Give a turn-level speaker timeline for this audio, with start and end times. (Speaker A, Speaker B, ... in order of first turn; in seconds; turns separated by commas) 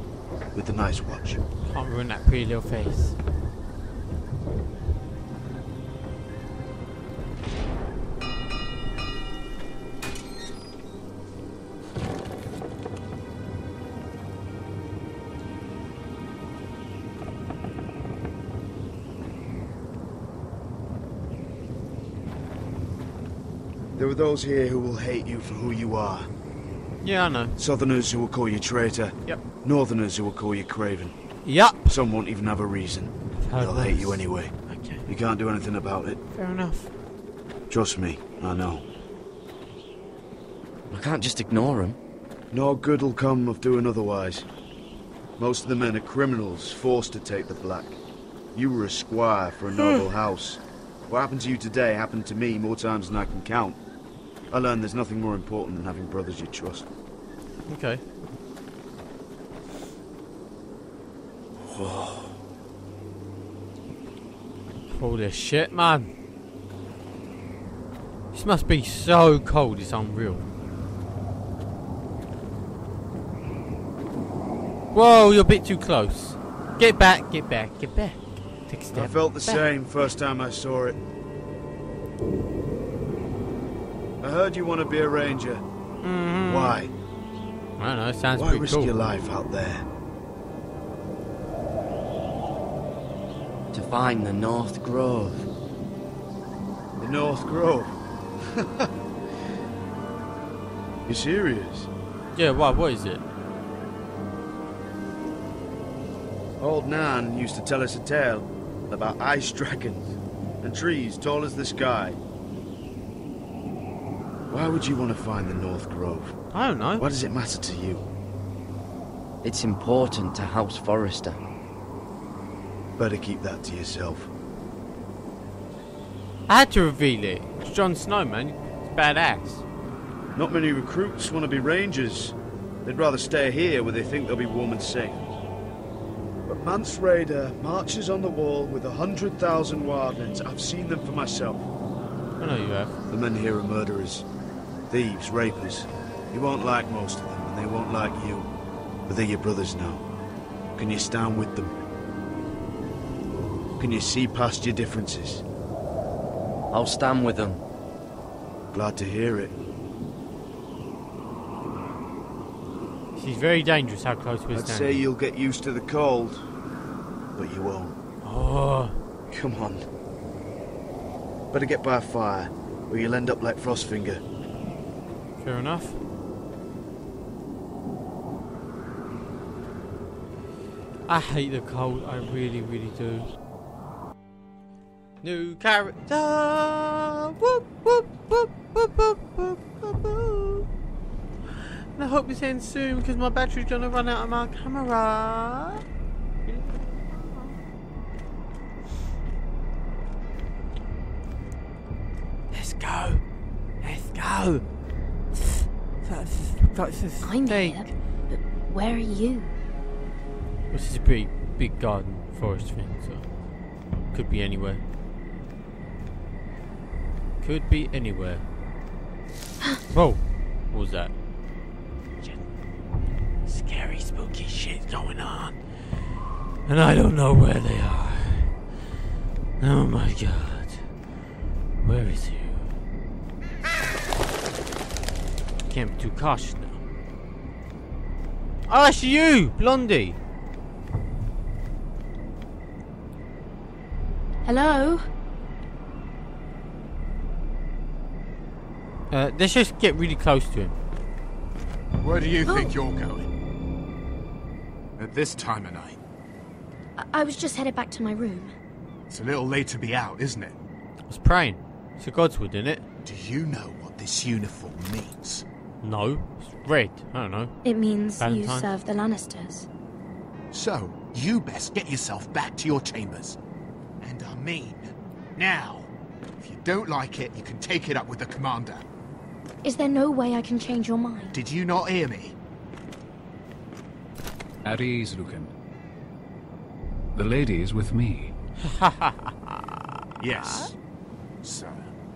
Speaker A: 0.5-1.4, Speaker B: 1.6-3.2, Speaker A: 24.0-26.3, Speaker B: 27.0-27.5, Speaker A: 27.6-31.1, Speaker B: 31.4-31.9, Speaker A: 31.8-36.2, Speaker B: 33.4-35.0, Speaker B: 36.3-36.9, Speaker A: 37.7-38.8, Speaker C: 40.9-42.0, Speaker A: 42.5-44.5, Speaker A: 45.4-48.0, Speaker A: 48.5-53.8, Speaker A: 54.5-56.9, Speaker B: 57.7-58.0, Speaker B: 64.9-66.1, Speaker B: 68.3-70.5, Speaker B: 74.9-79.6, Speaker A: 78.9-81.0, Speaker A: 84.2-85.6, Speaker B: 86.0-86.8, Speaker A: 86.5-86.9, Speaker B: 87.8-88.9, Speaker A: 88.4-89.8, Speaker C: 93.7-95.5, Speaker A: 97.0-98.0, Speaker A: 98.5-98.9, Speaker A: 101.1-101.9, Speaker B: 102.3-103.2, Speaker A: 106.6-112.2, Speaker A: 114.5-116.4, Speaker B: 116.5-117.0, Speaker A: 117.0-118.0, Speaker C: 119.4-121.4, Speaker A: 123.0-124.3, Speaker B: 126.5-129.6, Speaker A: 130.3-135.3, Speaker A: 136.5-141.7, Speaker B: 142.4-142.9, Speaker A: 143.1-144.2, Speaker A: 144.9-148.5, Speaker A: 149.1-150.0, Speaker A: 150.8-151.7, Speaker A: 153.8-155.4, Speaker C: 156.7-157.6, Speaker A: 158.7-159.6, Speaker B: 163.2-165.0, Speaker A: 164.5-166.4, Speaker A: 167.3-167.9, Speaker B: 168.2-168.9, Speaker A: 169.3-169.8, Speaker A: 171.5-174.2, Speaker B: 175.4-176.0, Speaker B: 181.1-183.3, Speaker B: 185.2-190.7, Speaker B: 191.9-195.8, Speaker B: 202.5-203.2, Speaker B: 203.8-204.6, Speaker B: 205.3-207.9, Speaker D: 207.2-209.5, Speaker B: 210.7-213.2, Speaker B: 214.1-214.8, Speaker B: 217.4-218.4, Speaker B: 219.9-221.1, Speaker B: 223.4-225.6, Speaker B: 226.7-228.6, Speaker B: 229.6-230.8, Speaker B: 231.8-232.7, Speaker B: 235.7-236.8, Speaker B: 238.7-240.2, Speaker D: 244.4-245.1, Speaker B: 249.1-250.7, Speaker E: 252.0-253.3, Speaker D: 252.4-252.7, Speaker E: 255.0-256.0, Speaker D: 257.0-258.5, Speaker E: 259.1-260.5, Speaker B: 261.1-262.8, Speaker E: 263.0-265.4, Speaker B: 265.8-267.5, Speaker D: 267.6-269.7, Speaker B: 268.2-268.7, Speaker E: 270.5-273.4, Speaker E: 274.0-275.9, Speaker E: 276.4-278.9, Speaker D: 279.6-281.4, Speaker E: 281.3-282.3, Speaker F: 284.6-285.5, Speaker F: 287.1-288.3, Speaker B: 288.6-290.7, Speaker E: 290.2-290.7, Speaker E: 291.4-291.9